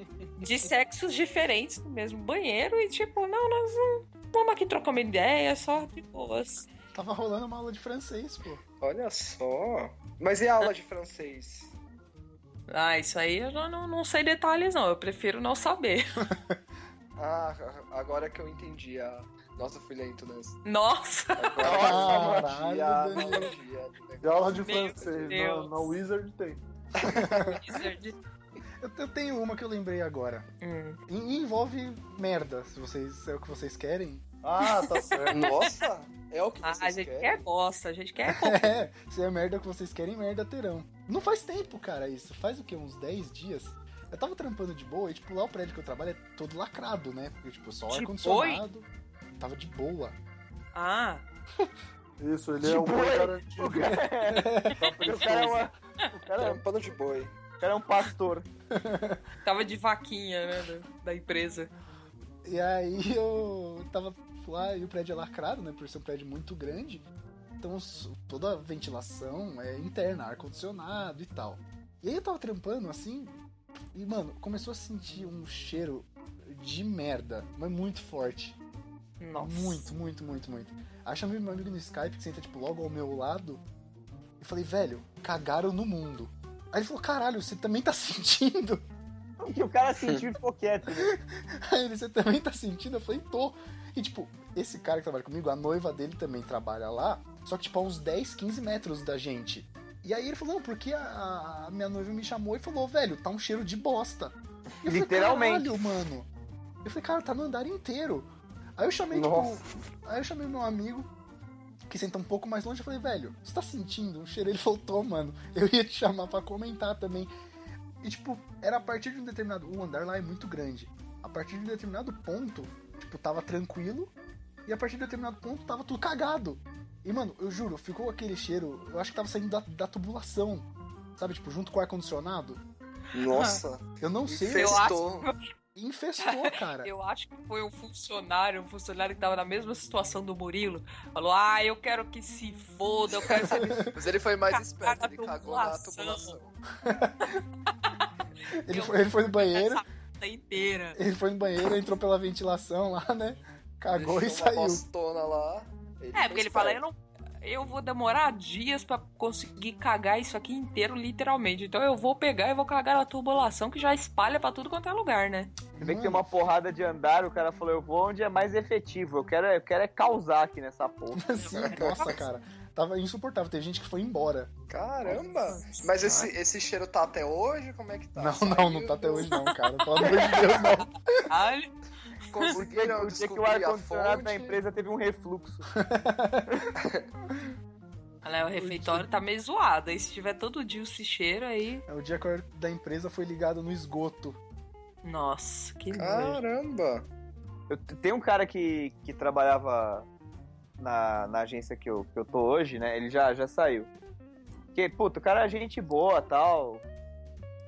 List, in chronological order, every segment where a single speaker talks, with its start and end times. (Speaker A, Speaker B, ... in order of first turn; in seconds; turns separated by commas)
Speaker A: 0.4-6.7, Speaker B: 6.9-8.6, Speaker C: 8.8-11.7, Speaker A: 12.7-16.2, Speaker C: 17.2-20.6, Speaker A: 20.6-21.7, Speaker C: 21.4-24.6, Speaker D: 21.6-22.5, Speaker B: 21.7-23.5, Speaker A: 23.1-23.5, Speaker E: 24.2-26.6, Speaker A: 24.6-25.9, Speaker C: 27.0-27.6, Speaker B: 27.1-27.6, Speaker A: 27.2-28.2, Speaker B: 28.8-30.5, Speaker A: 30.6-31.0, Speaker B: 31.1-34.2, Speaker E: 34.4-35.6, Speaker A: 34.6-35.7, Speaker C: 35.3-37.4, Speaker A: 36.6-38.7, Speaker B: 38.3-50.2, Speaker A: 47.9-48.6, Speaker A: 50.7-51.2, Speaker E: 52.2-54.0, Speaker D: 52.6-55.7, Speaker B: 53.9-54.8, Speaker E: 55.0-55.6, Speaker D: 56.2-56.6, Speaker C: 56.4-57.3, Speaker D: 57.6-58.5, Speaker B: 58.7-59.2, Speaker A: 59.4-61.7, Speaker B: 62.5-67.0, Speaker B: 67.6-73.4, Speaker B: 73.9-78.6, Speaker A: 79.2-79.9, Speaker B: 79.4-83.6, Speaker B: 84.4-88.8, Speaker D: 89.4-91.1, Speaker B: 91.0-106.3, Speaker D: 104.8-105.7, Speaker B: 106.8-111.1, Speaker E: 109.3-109.6, Speaker B: 111.9-117.3, Speaker B: 118.0-124.1, Speaker B: 124.7-132.6, Speaker C: 133.1-135.3, Speaker A: 133.3-133.6, Speaker B: 134.0-134.8, Speaker A: 134.5-135.5, Speaker B: 135.8-136.9, Speaker A: 136.2-146.3, Speaker C: 143.4-146.6, Speaker B: 143.6-143.9, Speaker B: 146.8-147.4, Speaker B: 148.6-149.8, Speaker A: 148.7-151.0, Speaker B: 150.9-154.8, Speaker C: 153.9-156.8, Speaker A: 156.2-165.6, Speaker B: 165.7-166.3, Speaker D: 165.8-171.3, Speaker B: 171.2-174.5, Speaker C: 171.6-172.2, Speaker A: 171.7-172.1, Speaker C: 174.7-179.3, Speaker A: 175.1-176.3, Speaker B: 178.2-181.3, Speaker A: 179.2-181.7, Speaker C: 182.3-184.6, Speaker D: 182.5-185.6, Speaker B: 185.7-186.5, Speaker A: 188.2-191.8, Speaker B: 188.6-189.1, Speaker B: 191.9-194.4, Speaker A: 195.0-196.4, Speaker C: 195.9-197.1, Speaker D: 197.7-200.1, Speaker D: 200.8-203.9, Speaker D: 204.7-206.8